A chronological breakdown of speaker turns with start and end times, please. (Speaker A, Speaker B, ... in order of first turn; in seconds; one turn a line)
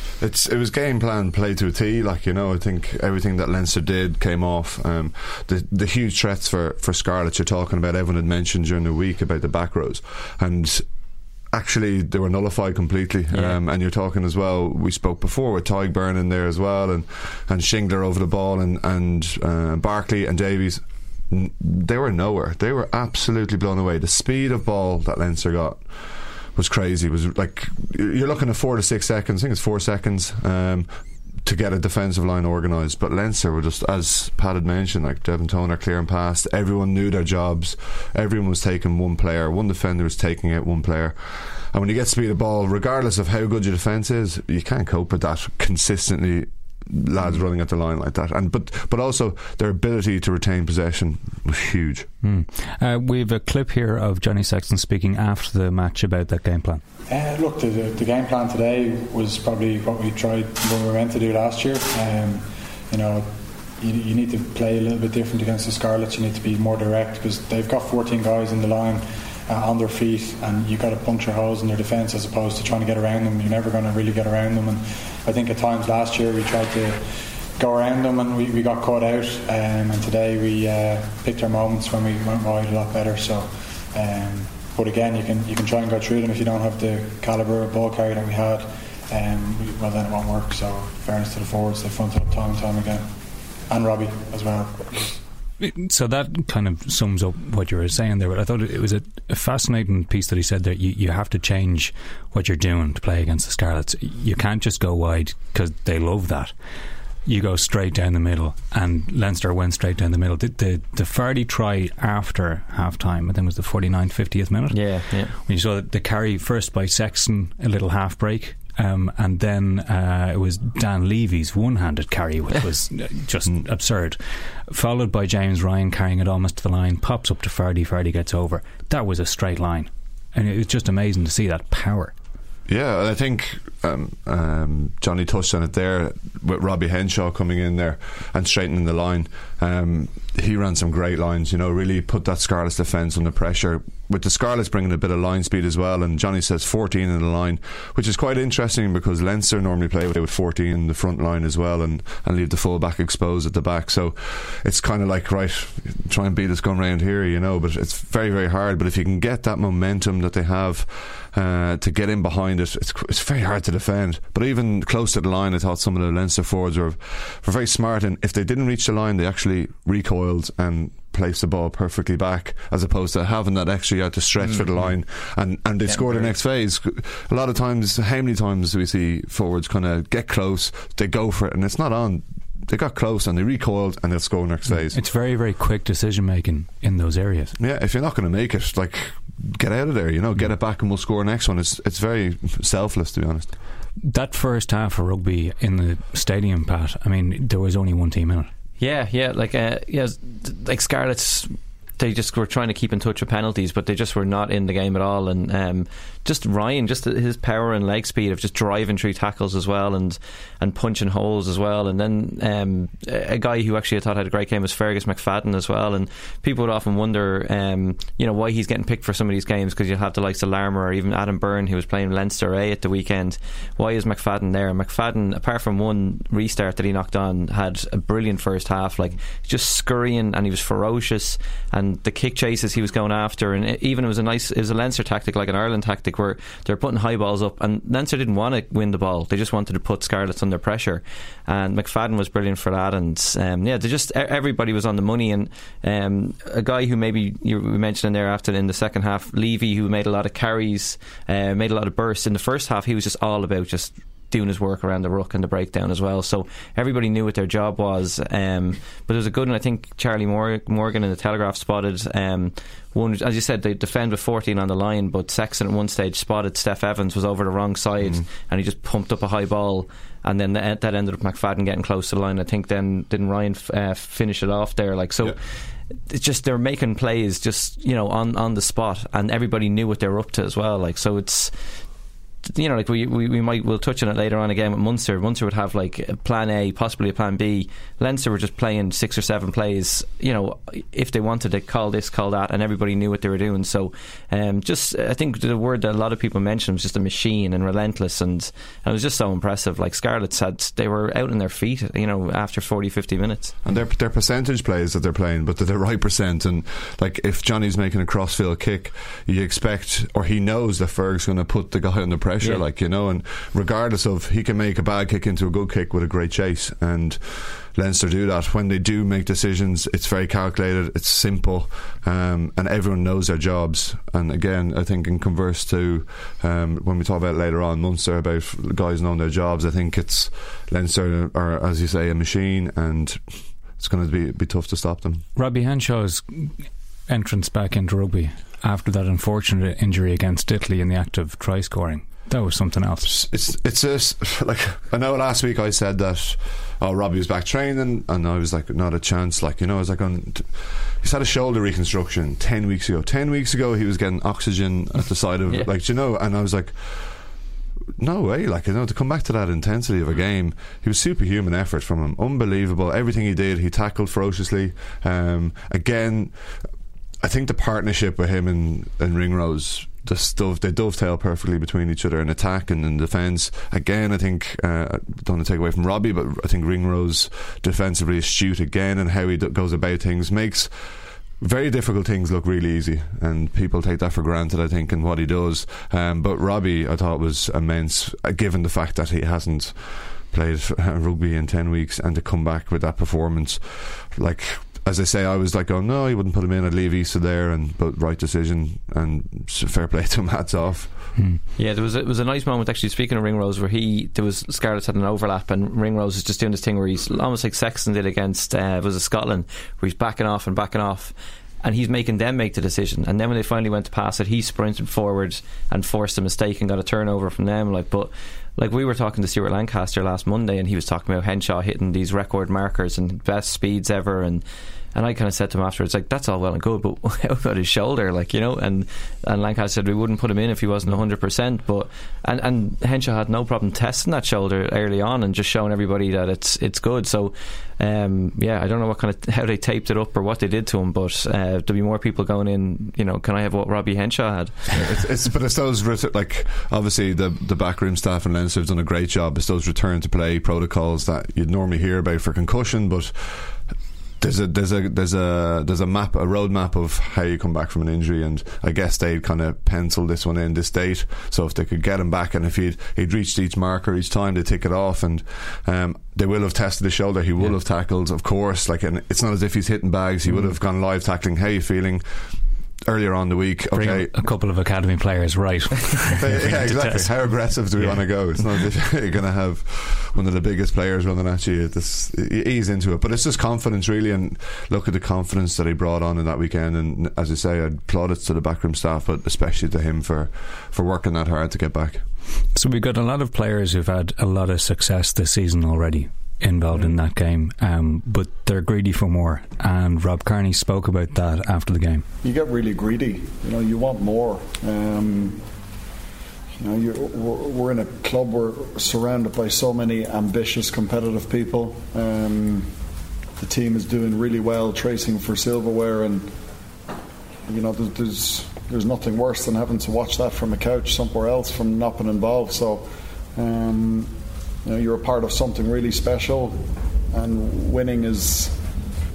Speaker A: 0.2-10.8
Speaker A: 11.5-52.1
Speaker B: 13.3-13.6
Speaker C: 52.2-56.8
Speaker D: 57.1-93.1
Speaker D: 93.7-95.2
Speaker C: 95.6-106.5
Speaker C: 107.2-132.1
Speaker B: 114.7-115.3
Speaker A: 132.7-185.0
Speaker B: 175.9-176.3
Speaker C: 184.9-187.6
Speaker A: 187.6-193.5
Speaker C: 194.0-198.5
Speaker B: 198.8-281.8
Speaker A: 268.0-268.3
Speaker B: 282.4-303.5
Speaker A: 303.6-335.2
Speaker C: 335.4-336.5
Speaker C: 337.1-343.1
Speaker A: 343.0-357.3
Speaker A: 358.0-366.6
Speaker A: 367.2-401.1
Speaker C: 401.1-401.4
Speaker B: 401.6-444.8
Speaker A: 444.7-472.2
Speaker A: 472.8-474.1
Speaker C: 473.7-478.0
Speaker A: 476.1-492.1
Speaker C: 492.5-502.0
Speaker E: 502.2-505.4
Speaker E: 506.6-512.7
Speaker E: 513.4-516.3
Speaker E: 517.5-528.6